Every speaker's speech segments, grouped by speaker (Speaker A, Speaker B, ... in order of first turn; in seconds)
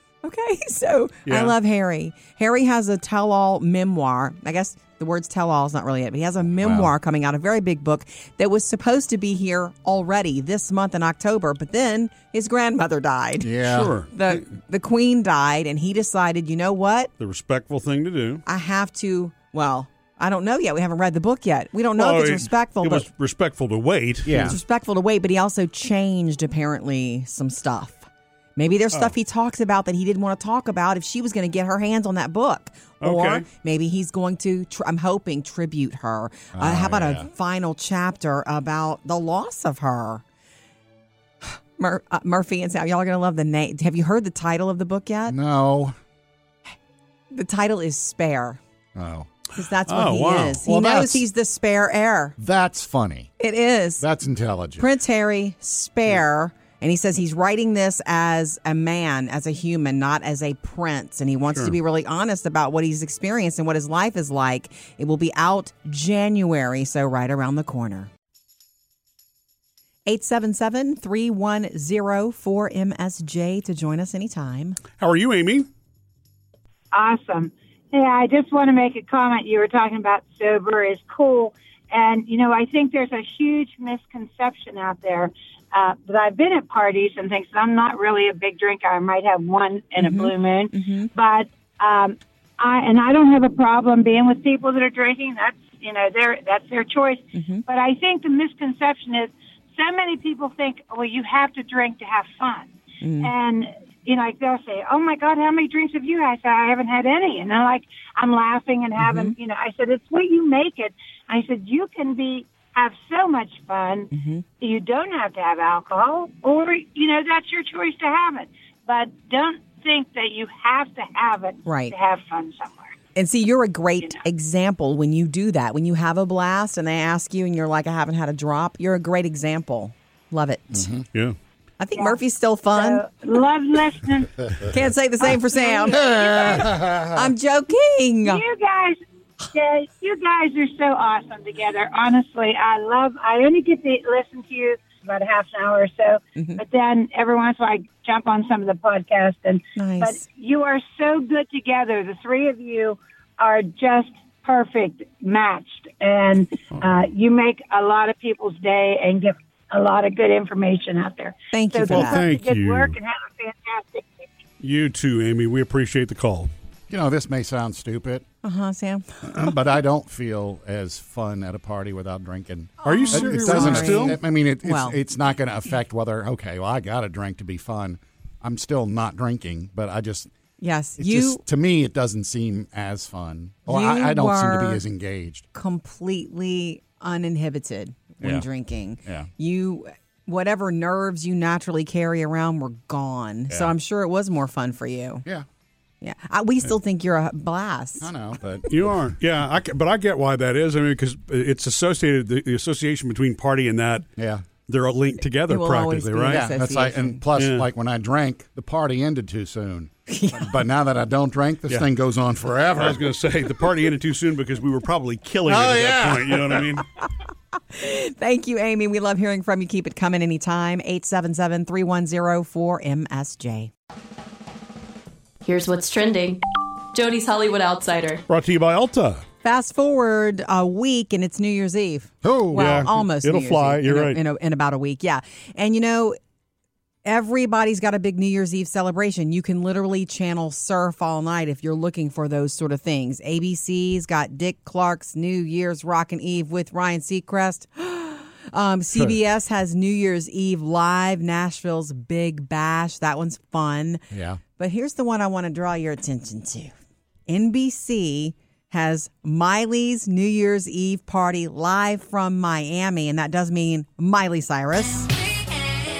Speaker A: 0.2-13.6, 14.1-17.1, 18.4-23.1, 24.3-40.2, 41.4-45.4, 47.3-48.6, 49.5-52.4, 53.4-54.0, 54.8-68.1, 70.1-74.8, 90.0-91.1, 97.3-97.6, 103.0-103.3, 109.0-109.3, 114.1-114.4, 121.7-121.9, 123.1-130.9, 131.8-133.0, 134.6-138.4, 146.3-146.6, 149.8-150.2, 161.5-162.2, 168.4-169.2, 172.8-175.0, 180.6-181.4, 183.7-184.8, 185.5-195.2, 196.0-198.1, 205.5-207.2, 210.1-210.6, 217.6-223.7, 229.4-236.2, 237.0-254.0, 254.6-256.7, 257.3-265.1
Speaker B: 1.2-1.5, 13.7-14.4, 17.2-18.4, 21.9-24.6, 33.0-33.5, 49.9-51.0, 75.0-75.7, 161.8-163.0, 164.6-166.5, 172.8-174.2, 198.7-204.1, 204.7-206.5, 207.3-207.7, 212.8-216.8, 228.3-229.2, 232.5-234.2
Speaker C: 6.5-6.9, 13.4-13.9, 24.2-24.6, 36.5-37.3, 45.3-45.9, 48.9-49.3, 50.6-51.2, 52.4-53.3, 54.0-54.9, 130.7-131.0, 135.9-137.3, 166.9-168.2, 169.3-180.3, 181.0-185.4, 189.0-189.3, 193.5-193.8, 198.0-198.8, 204.2-204.4, 206.3-213.0, 215.4-216.8, 232.2-232.9, 254.1-254.4
Speaker D: 76.9-123.0, 131.9-132.2, 132.7-134.4, 135.2-136.8, 138.2-164.2
Speaker E: 225.4-226.4, 226.9-228.2